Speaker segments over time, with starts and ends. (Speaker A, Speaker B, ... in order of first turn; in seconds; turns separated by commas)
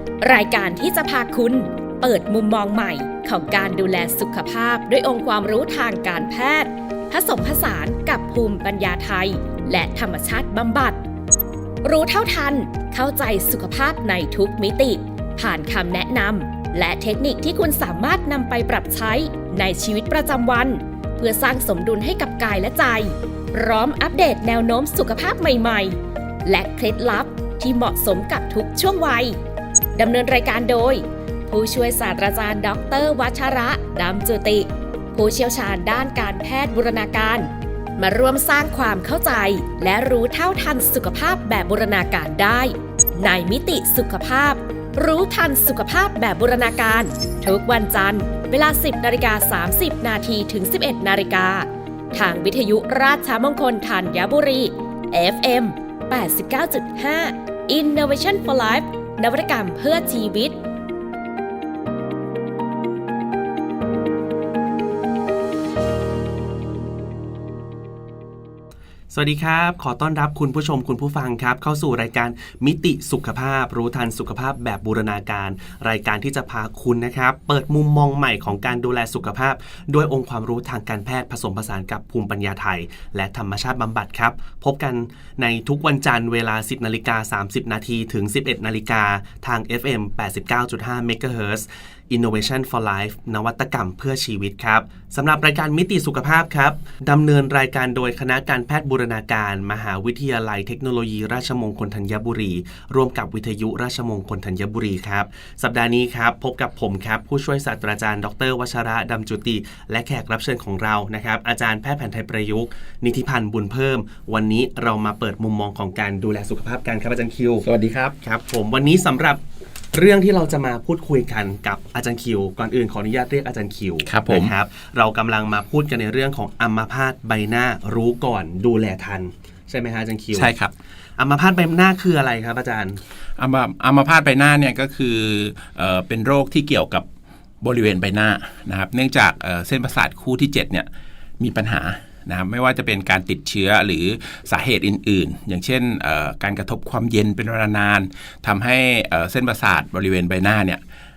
Speaker A: 0.2-11.0, Speaker A: 11.8-29.4, Speaker A: 29.9-60.5, Speaker B: 69.1-117.7, Speaker C: 117.6-118.2, Speaker B: 118.2-119.4, Speaker B: 119.9-130.5, Speaker C: 124.0-124.5, Speaker C: 130.3-130.7, Speaker B: 131.2-133.0, Speaker C: 133.4-137.1, Speaker C: 137.6-140.9, Speaker C: 141.4-150.8